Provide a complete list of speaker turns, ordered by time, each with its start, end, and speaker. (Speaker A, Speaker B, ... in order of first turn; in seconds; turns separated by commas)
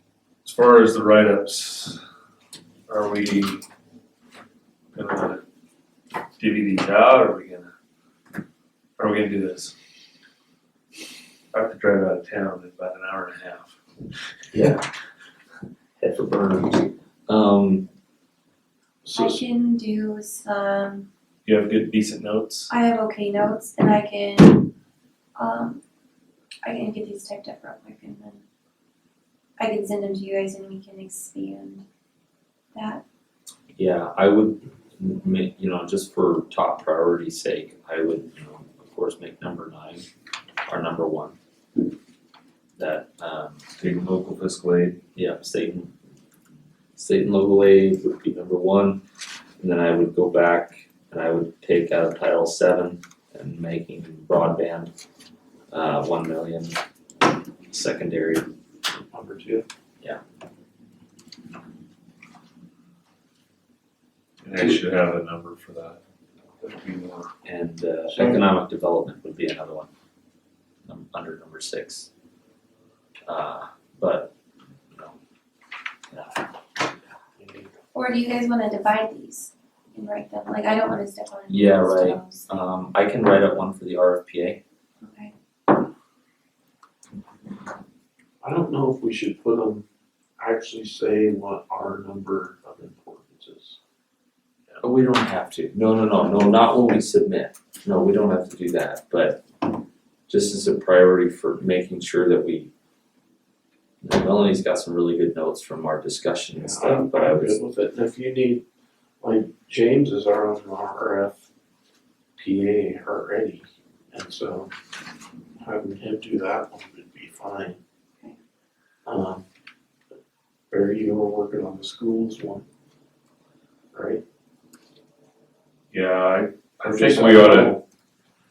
Speaker A: 0.4-2.0, Speaker A: 2.9-3.6, Speaker A: 4.9-5.4, Speaker A: 6.4-7.7, Speaker A: 9.0-9.7, Speaker A: 11.5-13.7, Speaker B: 14.5-14.8, Speaker B: 16.0-17.9, Speaker C: 19.0-19.4, Speaker D: 19.1-21.1, Speaker A: 21.4-22.7, Speaker D: 22.7-24.7, Speaker D: 25.4-25.8, Speaker D: 26.6-28.4, Speaker D: 29.6-31.8, Speaker D: 32.7-33.0, Speaker B: 33.8-40.0, Speaker B: 40.7-41.4, Speaker B: 42.8-43.8, Speaker A: 43.8-45.0, Speaker B: 45.1-45.9, Speaker B: 47.0-49.0, Speaker B: 49.6-54.9, Speaker B: 55.7-56.8, Speaker B: 57.7-58.5, Speaker C: 58.9-59.6, Speaker A: 64.4-66.0, Speaker A: 66.6-67.3, Speaker B: 67.4-69.9, Speaker C: 68.1-68.4, Speaker B: 70.8-72.1, Speaker B: 73.3-74.3, Speaker B: 74.9-75.2, Speaker B: 76.1-76.5, Speaker C: 77.4-77.7, Speaker D: 77.9-82.5, Speaker B: 81.5-84.6, Speaker D: 85.0-85.3, Speaker C: 88.4-89.8, Speaker C: 90.4-93.8, Speaker B: 94.8-99.4, Speaker B: 100.3-102.7, Speaker B: 104.0-107.6, Speaker C: 106.5-108.6, Speaker C: 109.2-111.4, Speaker C: 112.4-114.7, Speaker C: 115.6-117.8, Speaker C: 119.0-119.4, Speaker C: 120.7-122.6, Speaker C: 123.9-124.2, Speaker A: 125.9-127.8, Speaker C: 126.8-127.8